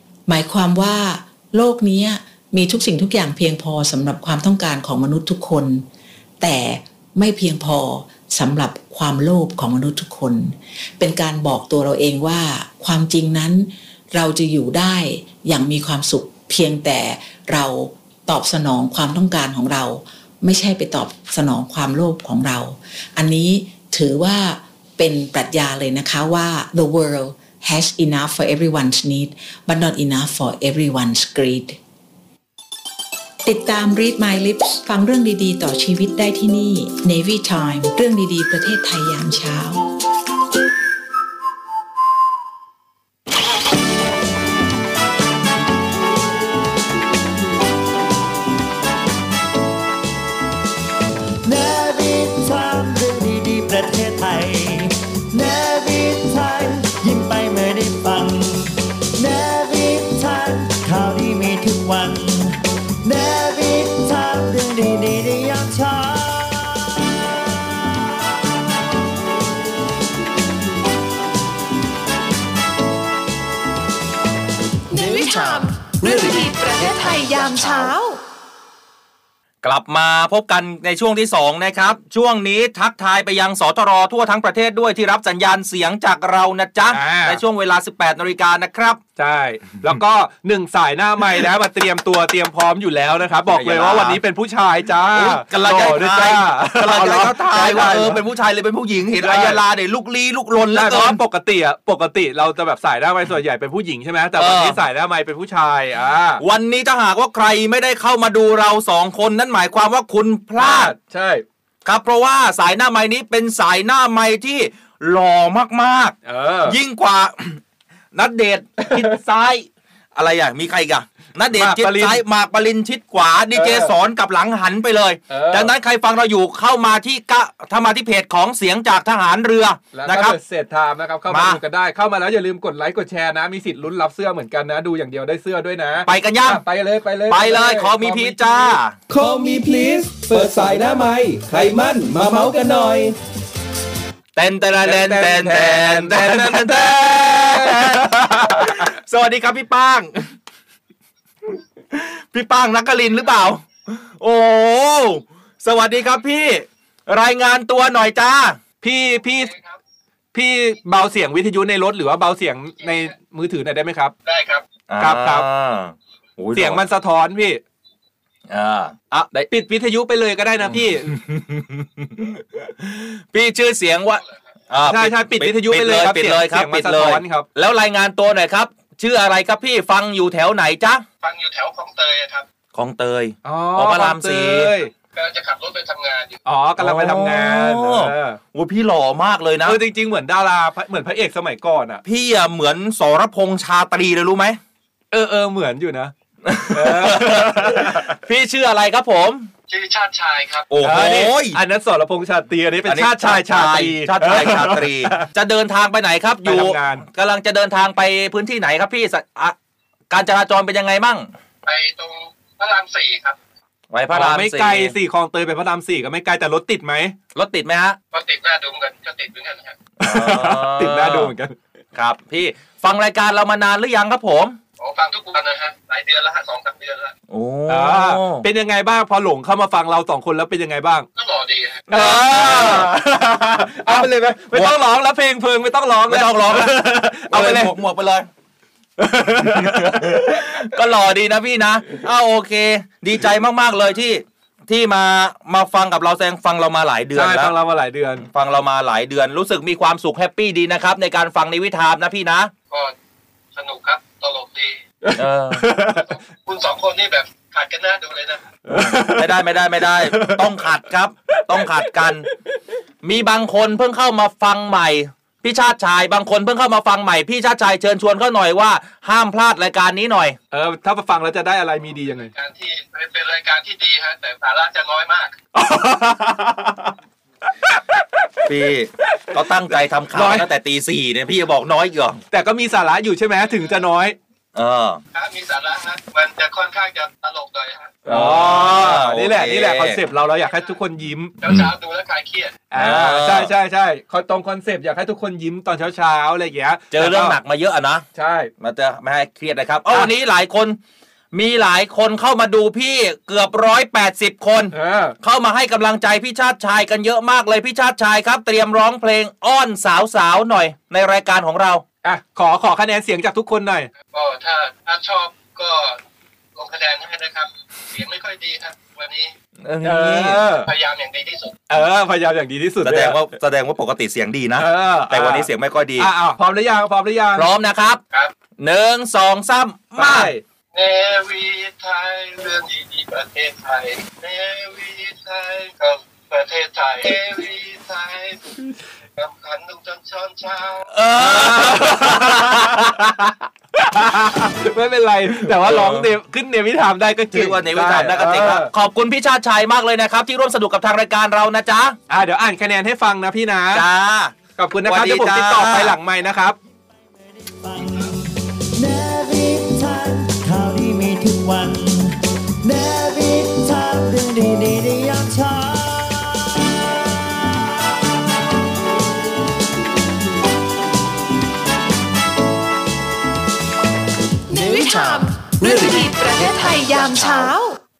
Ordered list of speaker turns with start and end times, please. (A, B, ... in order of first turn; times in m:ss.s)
0:00.3-0:05.8 A
0:06.4-0:31.8 A
0:33.4-0:39.8 A
0:51.4-1:07.1 B
1:14.9-1:18.2 C
1:17.6-1:17.9 D
1:19.6-1:29.0 D
1:26.9-1:27.4 E
1:29.2-1:38.2 E
1:33.5-1:34.2 D
1:35.1-1:41.2 D
1:39.2-1:39.6 E
1:40.7-1:46.4 E
1:44.4-1:44.8 D
1:46.4-1:50.9 D
1:50.6-1:51.4 E
1:51.8-1:57.6 D
1:56.2-1:56.8 E
1:58.1-2:10.4 D
1:58.8-1:59.1 E
2:01.5-2:02.2 E
2:03.5-2:03.9 E
2:05.3-2:05.7 E
2:09.9-2:18.8 E
2:11.3-2:11.6 D
2:16.0-2:16.6 D
2:17.3-2:19.0 D
2:19.1-2:23.1 F
2:20.2-2:20.5 E
2:24.4-2:30.2 D
2:24.8-2:28.9 E
2:31.5-2:38.6 D
2:38.8-2:39.5 E
2:39.4-2:39.8 G
2:40.3-2:44.1 E
2:44.2-2:44.6 G
2:44.9-2:46.8 D
2:45.0-2:45.4 E
2:46.5-2:47.6 E
2:48.5-2:49.4 D
2:49.5-2:51.1 E
2:50.7-3:01.0 D
2:54.8-2:57.5 E
3:01.2-3:02.4 G
3:02.7-3:04.7 D
3:03.4-3:04.9 E
3:05.1-3:06.4 G
3:06.4-3:08.4 E
3:06.8-3:09.8 D
3:09.6-3:12.0 E
3:12.0-3:14.6 D
3:15.1-3:16.1 E
3:16.4-3:19.5 D
3:16.7-3:18.1 E
3:19.7-3:20.7 G
3:20.7-3:21.6 D
3:20.8-3:25.3 E
3:22.8-3:29.6 D
3:26.4-3:27.0 E
3:30.1-3:31.3 D
3:31.6-3:33.4 G
3:33.9-3:34.9 D
3:34.1-3:37.2 E
3:37.3-3:38.0 D
3:38.1-3:39.8 G
3:40.0-3:41.6 E
3:40.0-3:41.3 D
3:41.9-3:44.6 D
3:44.8-3:47.1 G
3:47.3-3:48.4 D
3:47.7-3:51.1 E
3:51.2-3:51.9 G
3:51.9-3:52.9 D
3:51.9-3:57.7 E
3:53.6-3:54.8 D
3:56.1-3:58.3 D
3:59.0-4:00.4 E
3:59.4-4:07.5 D
4:07.1-4:08.3 E
4:08.3-4:12.5 D
4:13.5-4:14.8 G
4:15.0-4:16.1 E
4:15.2-4:15.6 D
4:15.9-4:18.6 G
4:18.7-4:19.3 E
4:18.7-4:22.2 D
4:19.8-4:20.6 E
4:21.3-4:22.3 E
4:23.0-4:30.4 D
4:30.5-4:32.3 E
4:32.3-4:35.4 G
4:35.5-4:36.9 E
4:37.6-4:38.0 E
4:38.4-4:42.2 D
4:40.1-4:40.4 E
4:42.3-4:44.2 E
4:44.5-4:45.0 D
4:45.1-4:48.0 G
4:48.0-4:50.0 D
4:48.1-4:51.4 E
4:51.4-4:52.6 G
4:51.4-4:51.7 D
4:52.7-4:57.4 E
4:52.8-4:53.5 D
4:56.9-4:58.0 D
4:58.1-4:58.5 E
4:58.6-5:00.8 D
5:01.3-5:11.8 D
5:04.7-5:05.2 E
5:12.0-5:13.9 E
5:14.1-5:16.0 G
5:16.6-5:19.3 G
5:19.6-5:20.4 D
5:19.8-5:20.7 E
5:20.6-5:21.6 G
5:21.7-5:23.2 E
5:22.8-5:26.1 D
5:24.6-5:27.5 E
5:27.4-5:28.0 D
5:28.6-5:30.3 D
5:30.0-5:30.4 E
5:30.7-5:38.4 G
5:39.2-5:40.9 G
5:40.9-5:43.1 D
5:41.2-5:48.7 E
5:45.5-5:46.1 D
5:47.3-5:52.0 D
5:52.1-5:53.8 E
5:53.7-5:56.0 D
5:54.6-5:56.6 E
5:56.5-6:08.2 B
6:14.5-6:17.8 C
6:14.5-6:16.4 F